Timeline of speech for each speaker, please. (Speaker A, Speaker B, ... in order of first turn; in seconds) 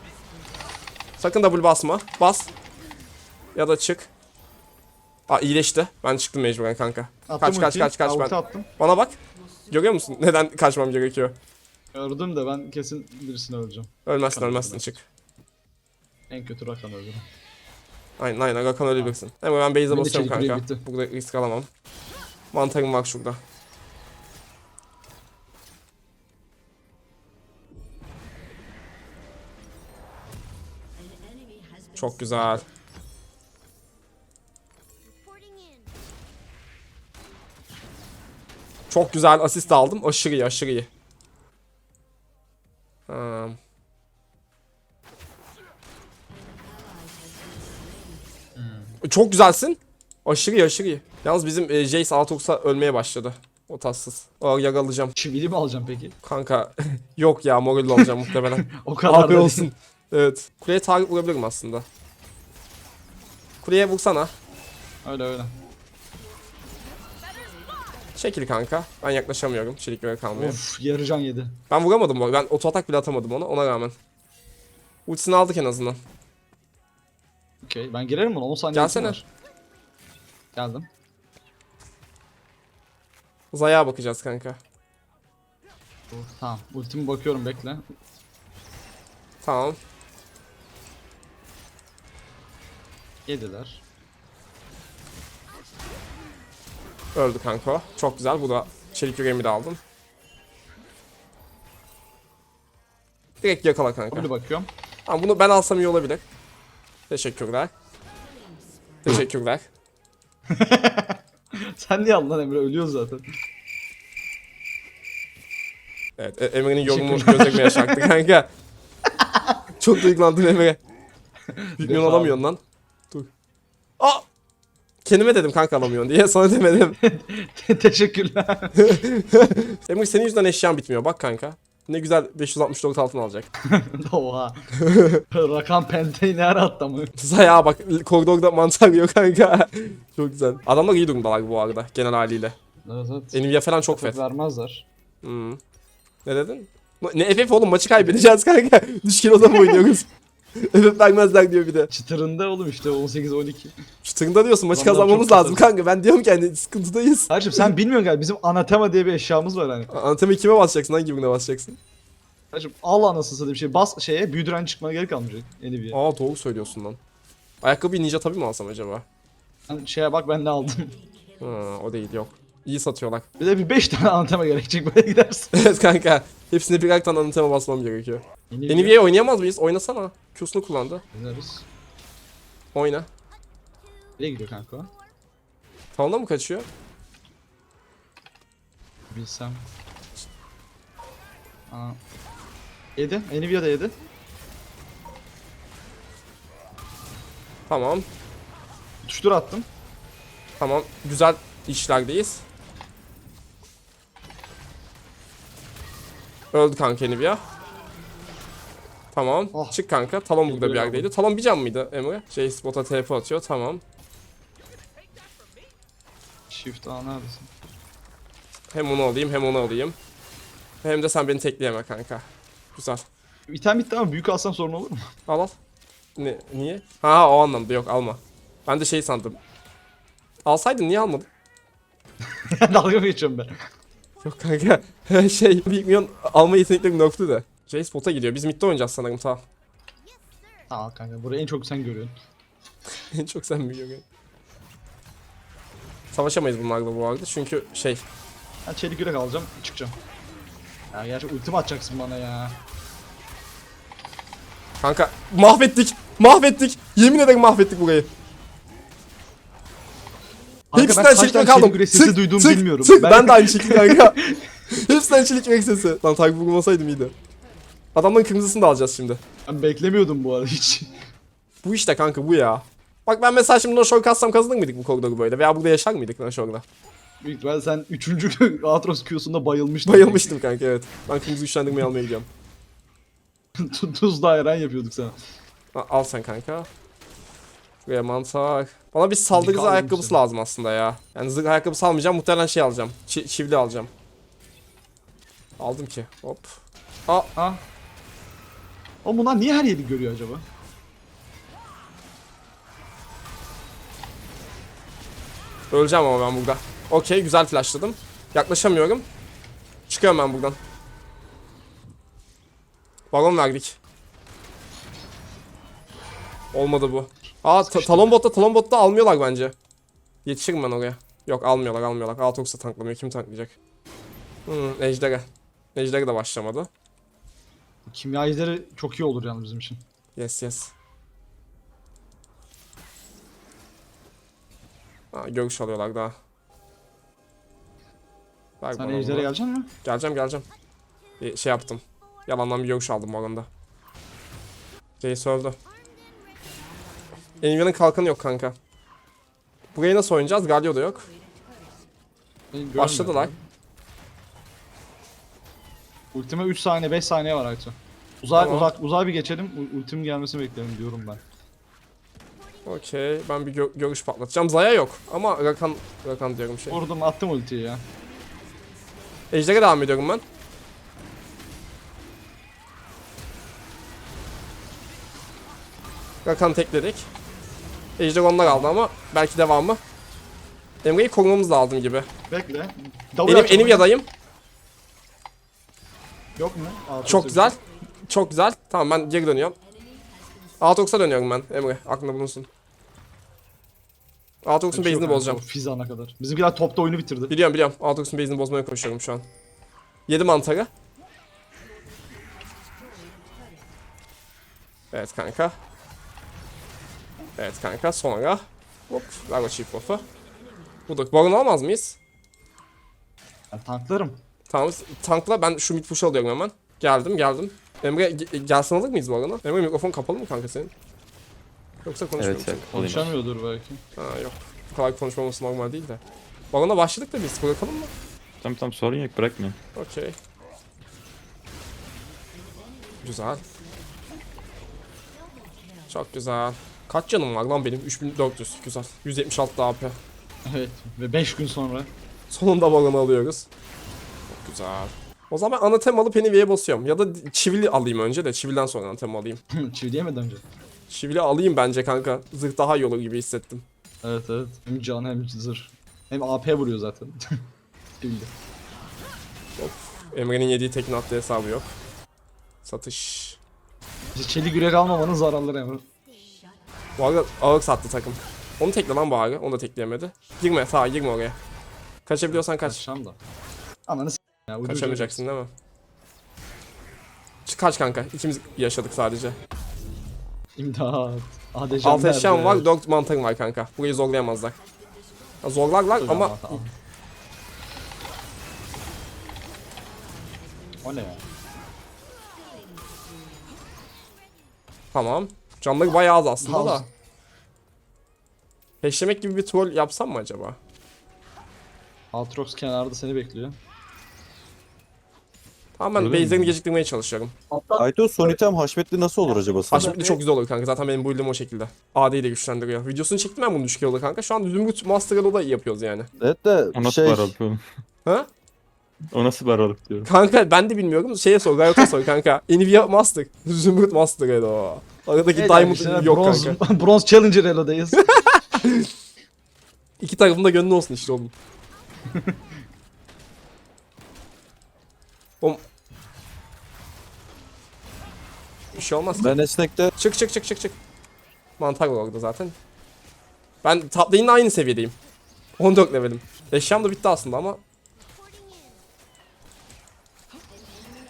Speaker A: 1.2-2.5, 3.5-4.1, 5.3-9.2, 9.7-11.4, 14.1-15.1, 18.2-21.7, 22.5-23.4, 31.9-32.7, 38.9-40.9, 43.1-43.6, 49.0-55.1, 56.2-61.9, 63.6-64.3, 68.2-70.6, 71.7-74.0, 75.1-76.0, 78.7-79.2, 83.5-84.6, 89.4-89.8, 97.2-99.8, 103.4-104.3, 105.1-106.2, 107.1-107.7, 109.0-109.7, 116.2-118.5, 119.8-120.8, 121.8-122.6, 125.0-127.0, 128.8-133.5, 134.8-135.2, 137.2-142.6, 143.3-144.2, 145.2-145.6, 146.2-150.1, 150.6-151.9, 154.0-157.7, 159.9-161.8, 165.9-167.0, 167.6-169.1, 171.4-173.3, 175.5-181.0, 182.7-183.1, 185.9-186.7, 197.7-198.1, 200.6-202.4, 206.5-207.4, 209.1-213.8, 218.7-220.0, 220.8-223.1, 225.3-225.5, 226.2-229.4, 230.4-231.3, 234.2-239.4, 243.1-244.0, 246.1-248.0, 254.8-258.1, 260.8-264.2, 264.7-267.1, 267.9-269.2, 271.6-276.6, 279.9-282.3, 285.7-286.7, 287.9-293.9, 295.6-297.3, 305.7-309.1, 309.9-310.6, 313.1-313.8, 316.5-319.5, 320.2-323.5, 324.5-326.7, 330.2-330.7, 335.1-336.1, 338.6-339.3, 339.8-340.4, 341.2-343.5, 345.0-345.6, 347.4-348.6, 349.7-351.1, 352.8-353.3, 358.4-358.7, 362.6-366.8, 369.3-370.2, 376.2-377.1, 378.0-379.8, 380.8-382.1, 383.3-384.1, 387.0-387.6, 388.1-389.6, 390.6-392.5, 394.4-395.4, 397.3-399.2, 400.1-400.7, 404.9-405.6, 407.4-410.1, 410.9-412.0, 414.5-420.7, 421.8-422.6, 424.0-426.0, 426.5-427.9, 429.8-430.2, 433.0-433.4, 435.9-440.0, 442.3-443.5, 444.3-449.4, 450.9-453.6, 459.6-461.8, 462.6-463.4, 467.0-471.4, 472.1-472.8, 474.6-475.5, 477.5-479.4, 481.8-484.6, 485.4-486.6, 494.9-496.8, 498.8-500.6, 505.8-507.4, 509.7-516.1, 520.0-526.6, 528.1-528.9, 530.0-531.3, 538.7-539.4, 540.0-540.8, 541.6-542.5, 543.6-544.9, 545.6-547.6
Speaker B: 7.3-8.7, 11.9-14.9, 16.3-17.2, 19.9-20.8, 48.6-49.0, 55.2-56.1, 58.8-59.7, 65.0-65.5, 70.3-71.5, 77.6-79.2, 80.5-80.9, 86.1-87.8, 93.3-93.8, 104.1-104.7, 110.5-111.2, 111.8-113.2, 116.8-118.1, 119.1-119.5, 121.5-122.4, 127.0-129.0, 133.7-134.6, 135.3-137.1, 142.8-144.9, 151.9-153.7, 154.7-155.7, 157.3-159.9, 162.5-166.0, 169.7-170.9, 173.4-175.5, 178.5-179.0, 181.1-181.7, 184.2-184.9, 189.1-189.7, 191.7-192.0, 193.0-194.0, 199.0-199.7, 209.5-209.8, 210.5-211.1, 216.5-217.5, 223.5-225.0, 232.5-233.5, 240.7-242.1, 248.7-250.0, 250.9-252.6, 260.7-264.4, 269.5-270.9, 277.2-280.3, 283.6-285.1, 289.3-290.2, 297.4-297.6, 299.0-300.4, 317.6-318.1, 327.9-329.8, 338.8-339.7, 352.5-353.4, 356.1-361.2, 366.7-367.8, 378.4-378.7, 382.3-383.9, 386.4-387.5, 394.7-397.3, 413.5-414.2, 422.7-423.8, 440.4-441.9, 449.6-450.4, 454.0-457.4, 458.0-458.3, 464.1-465.8, 472.3-473.2, 473.9-475.2, 480.6-482.7, 486.0-486.7, 490.8-491.3, 496.4-496.9, 502.1-503.6, 525.3-528.1, 532.1-532.4
Speaker C: 422.2-423.1, 428.4-429.6, 506.0-506.5, 516.7-517.6, 519.1-520.1
Speaker D: 507.6-510.2, 516.2-517.3, 539.2-539.9